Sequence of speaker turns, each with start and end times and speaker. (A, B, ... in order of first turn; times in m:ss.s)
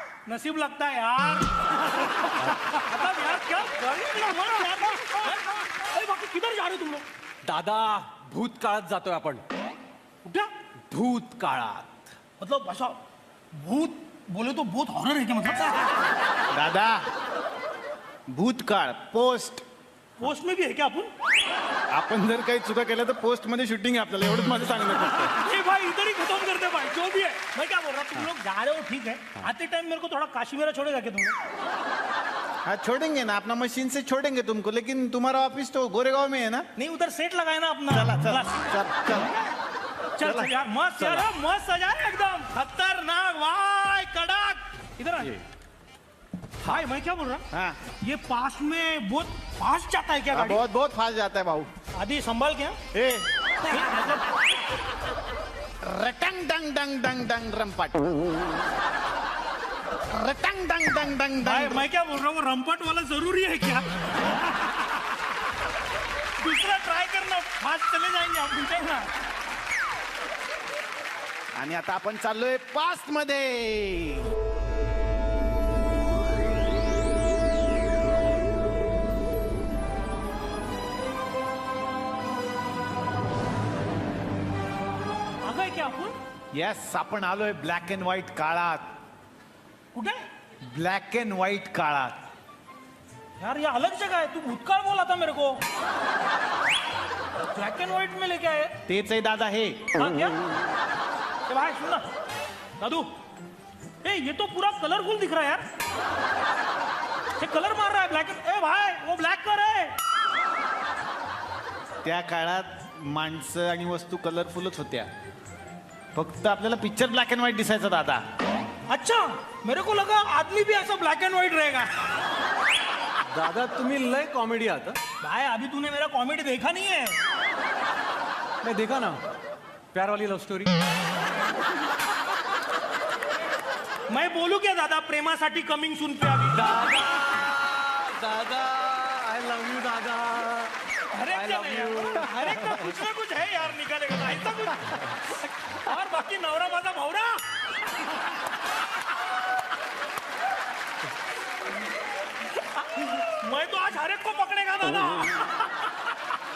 0:00.2-0:07.0 A
0:07.4-0:09.4 B
0:10.2-0:10.5 A
0:10.9-0:12.0 B
0:12.4-0:13.0 A
0:13.6-0:16.0 A
0:16.5-0:17.0 C
0:18.3-0:19.6 C
0:20.2-0:21.1 A
0:21.9-0:25.3 C
0:24.9-0:31.4 A
0:32.6-0:36.7 C
0:36.8-0:38.7 A
0:37.9-0:39.3 C
0:40.2-0:45.4 A
0:40.2-0:41.2 C
0:46.6-0:47.4 A
0:47.5-0:47.8 C
0:48.0-0:50.6 A
0:50.3-0:51.7 C
0:52.0-0:52.8 A
0:52.9-0:53.3 C
0:53.6-0:54.4 A
0:55.8-0:58.1 C
1:00.1-1:01.8 C
1:01.4-1:04.0 A
1:06.4-1:09.1 A
1:11.6-1:14.3 C
1:25.4-1:26.2 A
1:26.5-1:28.8 C
1:29.9-1:30.2 A
1:30.7-1:32.2 C
1:33.4-1:35.6 A
1:37.5-1:38.7 A
1:38.9-1:39.9 C
1:39.9-1:40.4 A
1:41.5-1:42.0 A
1:42.8-1:43.1 A
1:44.0-1:45.6 A
1:47.4-1:49.9 A
1:52.0-1:55.1 C
1:56.1-1:58.2 C
1:58.9-2:01.9 A
2:03.3-2:05.0 B
2:05.2-2:07.2 A
2:08.6-2:09.2 B
2:09.9-2:10.8 B
2:14.1-2:16.8 A
2:16.5-2:20.7 B
2:21.1-2:27.4 A
2:21.3-2:23.0 B
2:32.6-2:35.7 A